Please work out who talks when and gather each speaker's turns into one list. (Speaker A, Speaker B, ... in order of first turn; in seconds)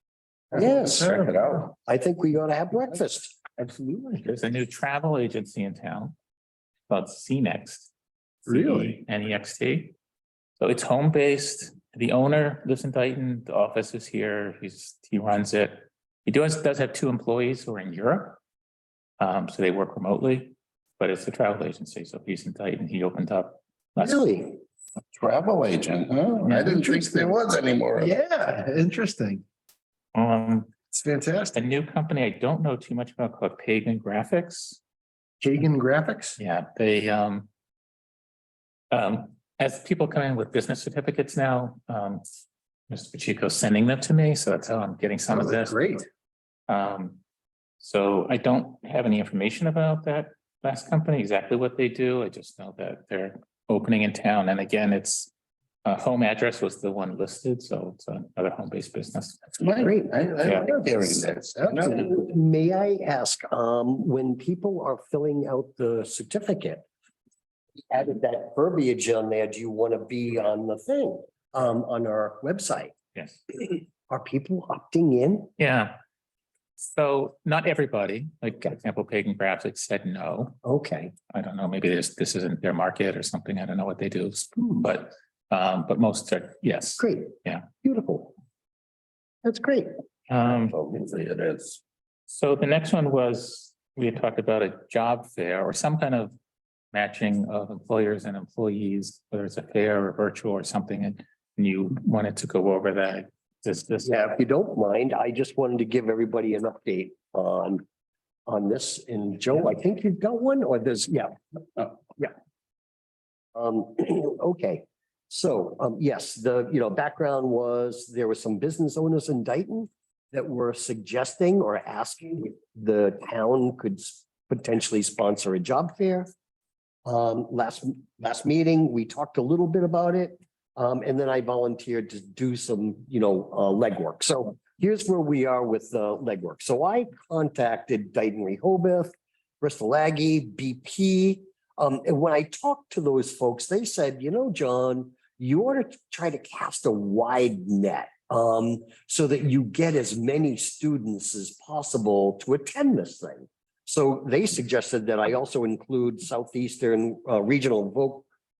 Speaker A: 0.5-1.1, 1.8-3.4, 24.0-24.6, 61.6-66.8, 67.9-72.9, 73.5-75.5, 80.6-81.1, 87.0-88.3, 89.4-89.9, 104.0-107.8, 108.5-112.3, 113.5-126.3, 127.1-158.2
Speaker B: 0.6-1.4, 3.6-4.3, 8.5-9.0, 26.6-27.4, 28.0-29.4, 30.9-31.6, 35.4-36.4, 45.3-46.0
Speaker C: 0.6-1.7, 25.1-28.1, 59.6-62.1, 90.6-91.8
Speaker D: 4.2-6.1, 6.9-7.9, 8.4-9.9, 10.6-18.4, 19.2-24.2, 26.4-26.8, 30.1-30.7, 31.5-34.8, 36.4-37.5, 38.9-42.2, 42.9-46.0, 46.7-47.2, 47.8-55.3, 55.8-59.4, 60.4-60.7, 73.1-73.4, 75.6-76.0, 76.8-80.6, 81.3-87.7, 90.3-90.8, 92.3-96.3, 96.9-104.2